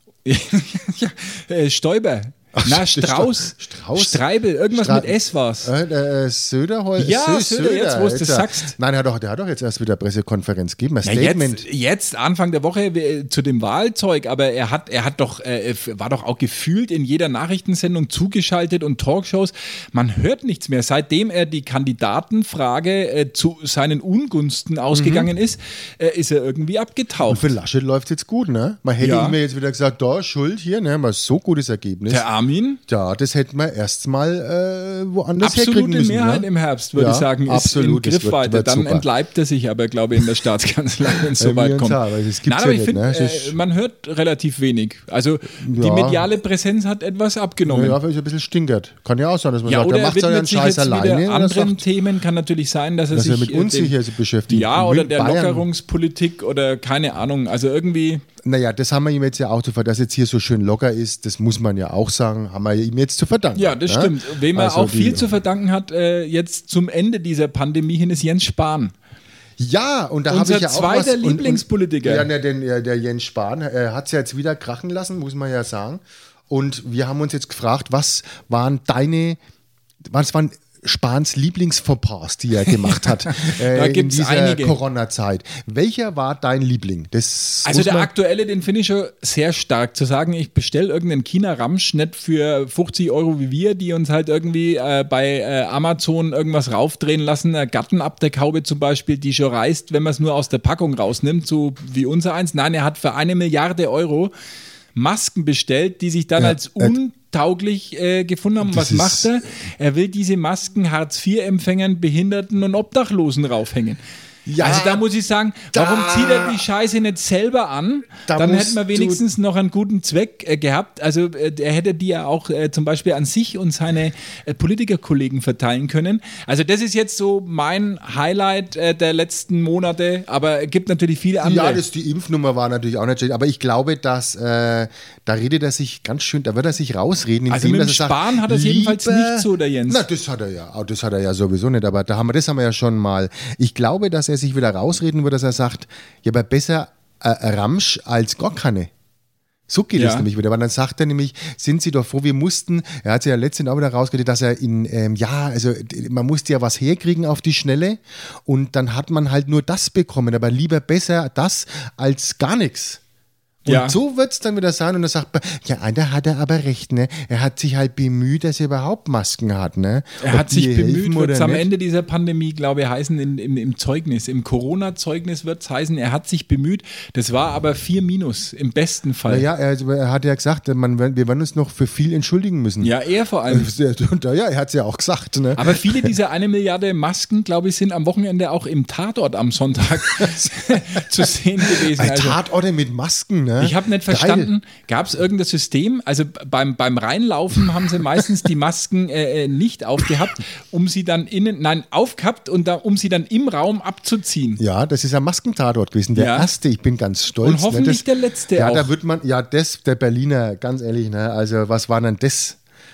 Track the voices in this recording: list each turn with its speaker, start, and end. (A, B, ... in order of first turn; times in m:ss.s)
0:00.2-0:05.7 A
0:02.5-0:11.6 B
0:07.0-0:08.7 A
0:11.0-0:27.5 A
0:24.9-0:25.3 B
0:27.3-0:32.2 B
0:29.0-0:29.4 A
0:32.1-0:32.8 A
0:32.9-0:39.1 B
0:35.4-0:48.0 A
0:41.4-0:43.6 B
0:45.6-0:46.3 B
0:47.6-0:51.8 B
0:49.6-0:53.9 A
0:53.1-0:55.6 B
0:54.5-0:58.2 A
0:58.4-1:05.3 B
1:03.5-1:08.9 A
1:09.6-1:19.4 B
1:10.3-1:12.3 A
1:20.0-1:28.1 B
1:22.7-1:24.8 A
1:27.6-1:44.3 A
1:44.9-1:54.0 A
1:46.4-1:47.0 B
1:48.6-1:49.3 B
1:54.5-1:55.0 B
1:54.6-2:11.8 A
1:55.7-1:56.6 B
1:58.3-1:59.2 B
2:11.4-2:28.9 B
2:17.5-2:20.0 A
2:29.7-2:43.0 B
2:30.0-2:30.2 A
2:43.6-2:44.0 A
2:43.7-2:51.7 B
2:50.2-2:59.4 A
2:59.3-3:02.9 B
3:02.8-3:03.7 A
3:03.5-3:06.1 B
3:05.5-3:12.4 A
3:10.2-3:14.5 B
3:13.6-3:24.6 A
3:24.6-3:32.6 B
3:26.1-3:26.5 A
3:27.4-3:28.9 A